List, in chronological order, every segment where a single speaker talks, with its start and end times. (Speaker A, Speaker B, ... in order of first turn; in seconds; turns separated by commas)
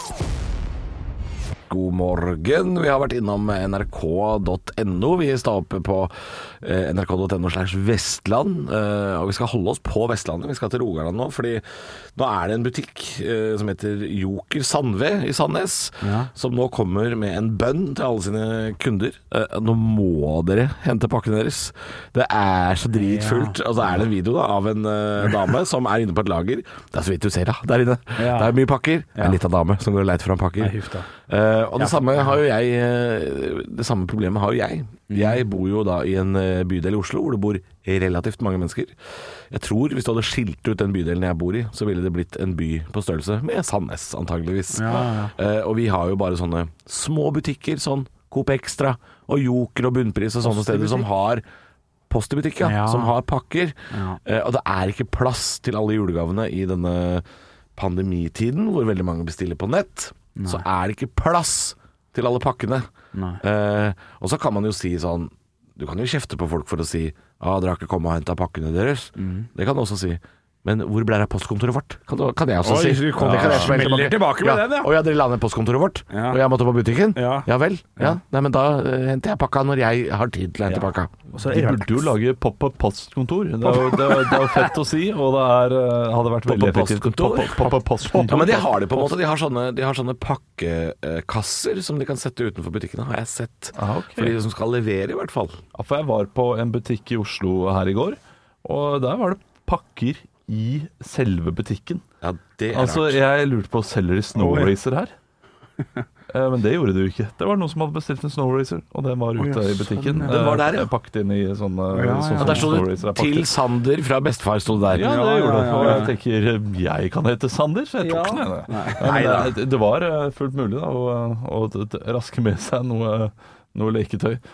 Speaker A: 1.7-39.0, Speaker B: 16.0-16.3, Speaker B: 22.9-23.6, Speaker B: 28.1-28.6, Speaker B: 30.6-31.1, Speaker B: 31.8-32.4, Speaker B: 35.1-35.4, Speaker A: 39.5-51.4, Speaker B: 44.7-45.3, Speaker B: 50.4-51.1, Speaker A: 52.1-57.2, Speaker B: 52.6-53.1, Speaker B: 53.9-54.2, Speaker A: 57.8-62.9, Speaker B: 60.4-60.6, Speaker B: 63.1-63.4, Speaker A: 63.4-81.1, Speaker B: 69.2-69.5, Speaker B: 72.6-74.9, Speaker C: 73.2-73.8, Speaker B: 76.1-76.4, Speaker B: 77.1-78.2, Speaker B: 80.7-82.1, Speaker C: 81.4-89.1, Speaker B: 83.6-84.6, Speaker A: 86.5-95.6, Speaker C: 93.7-94.3, Speaker C: 95.7-102.0, Speaker A: 102.2-103.2, Speaker C: 102.7-105.1, Speaker B: 104.3-104.7, Speaker C: 106.3-113.5, Speaker B: 109.4-110.3, Speaker A: 110.2-110.9, Speaker B: 111.9-112.8, Speaker A: 112.4-115.1, Speaker C: 114.9-124.4, Speaker B: 114.9-116.1, Speaker B: 118.0-119.5